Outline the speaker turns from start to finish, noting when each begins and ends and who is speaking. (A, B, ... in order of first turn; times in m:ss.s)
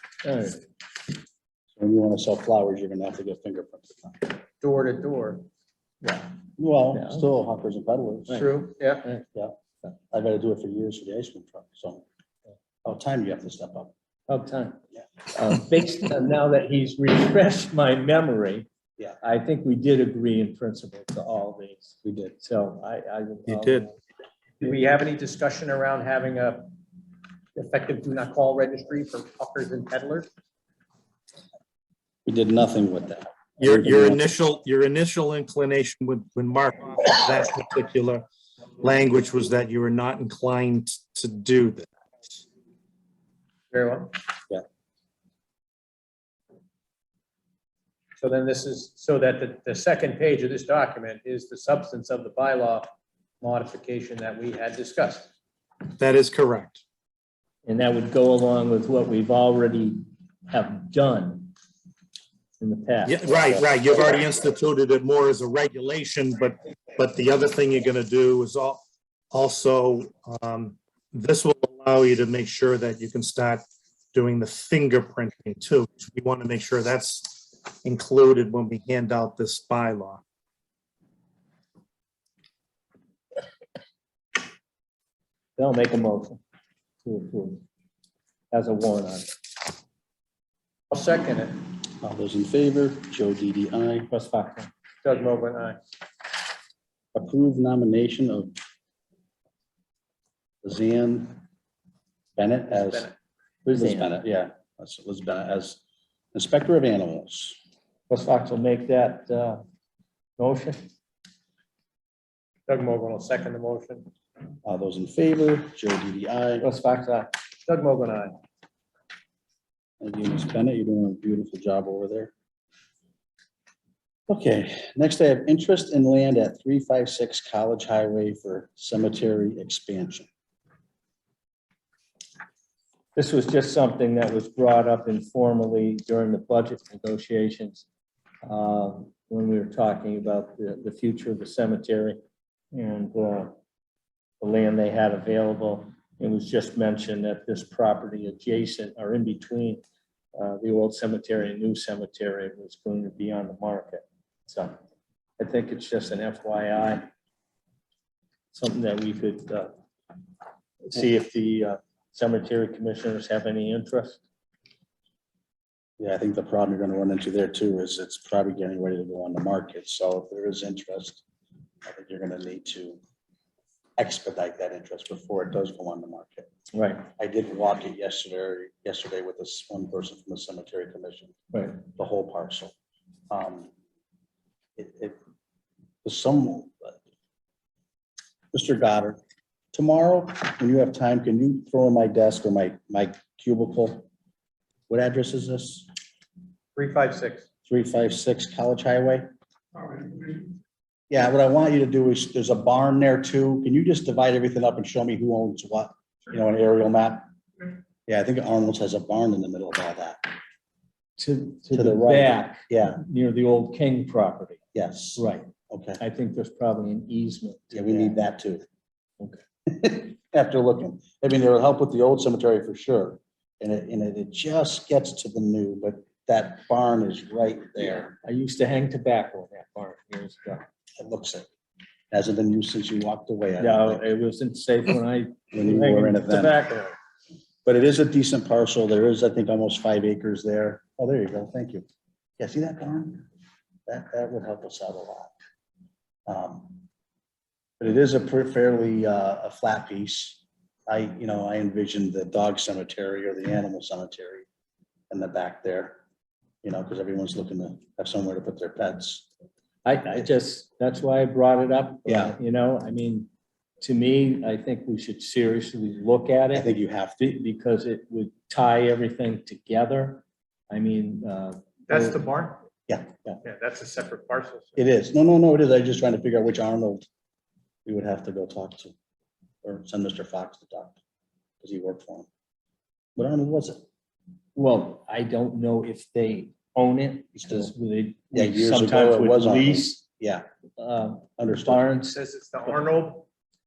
0:00.2-0:00.6 A
0:01.8-0:04.3 B
0:04.6-0:05.4 C
0:06.0-0:06.3 A
0:06.6-0:08.4 B
0:07.0-0:07.2 A
0:08.3-0:09.1 C
0:10.1-0:12.0 B
0:12.8-0:13.9 B
0:14.3-0:14.8 A
0:15.3-0:18.7 A
0:19.2-0:24.0 A
0:22.0-0:22.3 B
0:23.5-0:23.9 D
0:24.6-0:26.7 C
0:27.5-0:30.3 C
0:32.2-0:34.3 B
0:33.6-0:38.2 D
0:38.8-0:42.4 D
0:43.7-0:44.2 C
0:48.2-0:55.3 C
0:56.0-0:56.8 D
0:57.6-1:01.5 A
1:02.6-1:03.7 A
1:03.1-1:20.2 D
1:25.6-1:26.4 A
1:27.0-1:27.6 A
1:28.5-1:29.3 A
1:30.9-1:31.6 C
1:32.0-1:34.1 B
1:34.1-1:34.7 A
1:35.0-1:35.8 C
1:37.1-1:38.5 B
1:40.6-1:41.4 B
1:42.4-1:43.1 B
1:42.7-1:43.1 C
1:43.6-1:44.2 A
1:43.7-1:45.8 B
1:46.3-1:47.6 B
1:48.1-1:49.6 A
1:50.4-1:50.8 A
1:52.7-1:54.1 C
1:54.6-1:56.7 B
1:56.6-1:57.3 A
1:57.6-1:58.4 C
2:00.0-2:02.3 B
2:04.3-2:10.2 B
2:13.2-2:17.8 A
2:18.4-2:22.2 A
2:22.7-2:23.5 A
2:24.4-2:29.8 A
2:30.3-2:34.8 A
2:35.4-2:37.0 A
2:38.5-2:39.7 A
2:40.8-2:44.2 A
2:46.0-2:51.2 B
2:51.8-2:53.0 B
2:54.0-2:56.5 B
2:56.7-2:57.1 A
2:57.2-3:02.7 B
3:01.5-3:01.8 A
3:03.3-3:03.7 B
3:04.8-3:05.2 B
3:06.0-3:07.0 B
3:08.5-3:09.2 B
3:09.7-3:14.1 B
3:14.9-3:15.9 B
3:16.7-3:17.4 C
3:17.7-3:19.3 B
3:19.8-3:20.4 B
3:21.1-3:27.2 B
3:28.1-3:30.2 B
3:31.2-3:34.6 A
3:31.7-3:33.0 B
3:34.7-3:36.0 B
3:35.2-3:38.2 A
3:37.7-3:38.6 B
3:39.7-3:48.2 B
3:48.2-3:50.6 A
3:51.0-3:51.4 B
3:52.1-3:54.0 B
3:53.6-3:57.0 A
3:55.5-3:56.6 B
3:57.6-4:01.8 B
4:02.4-4:03.2 B
4:03.9-4:05.3 B
4:06.3-4:06.8 B
4:07.8-4:14.4 B
4:15.1-4:16.0 B
4:16.6-4:19.2 B
4:19.8-4:23.3 A
4:22.0-4:22.4 B
4:23.8-4:26.7 A
4:26.5-4:27.2 B
4:27.2-4:32.2 A
4:31.9-4:32.6 C
4:32.9-4:33.4 B
4:33.4-4:34.8 C
4:34.8-4:37.0 B
4:37.8-4:38.9 B
4:39.6-4:41.0 B
4:41.6-4:42.3 B
4:43.2-4:43.8 B
4:44.5-4:50.0 A
4:47.3-4:47.7 B
4:48.3-4:50.4 B
4:50.8-4:52.2 A
4:51.4-4:51.9 B
4:52.1-4:53.3 C